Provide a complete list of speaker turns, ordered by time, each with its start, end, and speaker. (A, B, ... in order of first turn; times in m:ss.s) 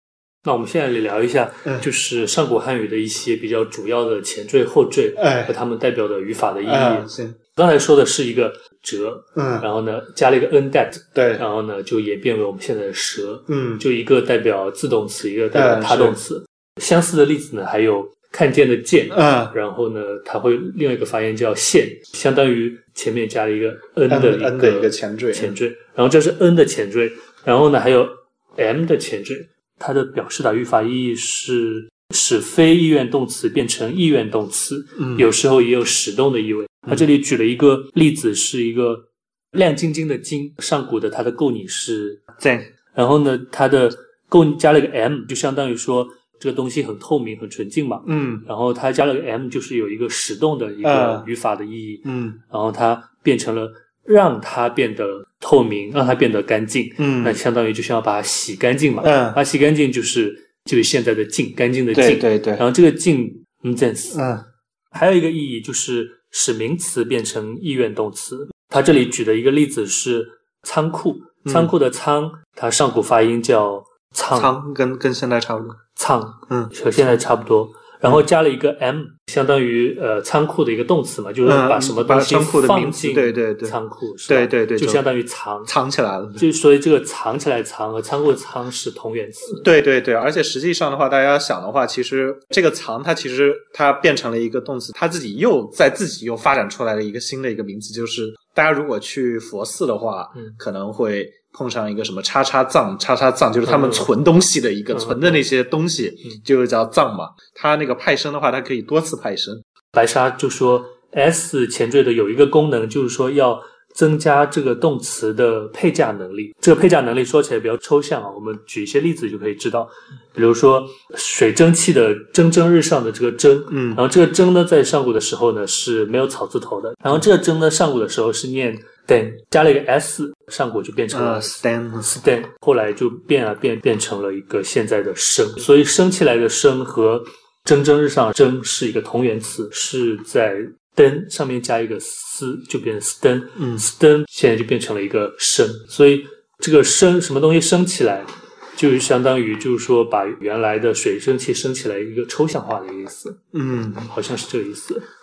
0:00.4-0:42.2 A
0:05.2-0:05.5 B
0:06.6-0:07.4 B
0:09.4-0:09.6 B
0:11.1-0:11.4 B
0:13.5-0:13.8 B
0:15.5-0:16.2 B
0:19.1-0:19.5 B
0:24.1-0:25.5 B
0:35.0-0:35.3 B
0:42.4-0:42.7 B
0:42.9-1:04.2 A
0:48.0-0:48.4 B
0:50.8-0:51.3 B
0:52.0-0:52.4 B
0:57.0-0:57.4 B
0:59.0-0:59.4 B
1:01.9-1:02.6 B
1:04.1-1:04.4 B
1:04.9-1:14.6 A
1:11.4-1:11.7 B
1:14.3-1:15.8 B
1:15.9-1:25.7 A
1:16.5-1:16.7 B
1:21.4-1:23.8 B
1:24.3-1:25.0 B
1:25.7-1:26.4 B
1:26.4-1:29.6 A
1:29.5-1:49.6 B
1:43.6-1:44.1 A
1:44.9-1:45.4 A
1:49.9-2:33.4 A
2:03.7-2:04.0 B
2:11.1-2:12.2 B
2:23.6-2:23.8 B
2:33.5-2:34.1 B
2:34.0-2:35.0 A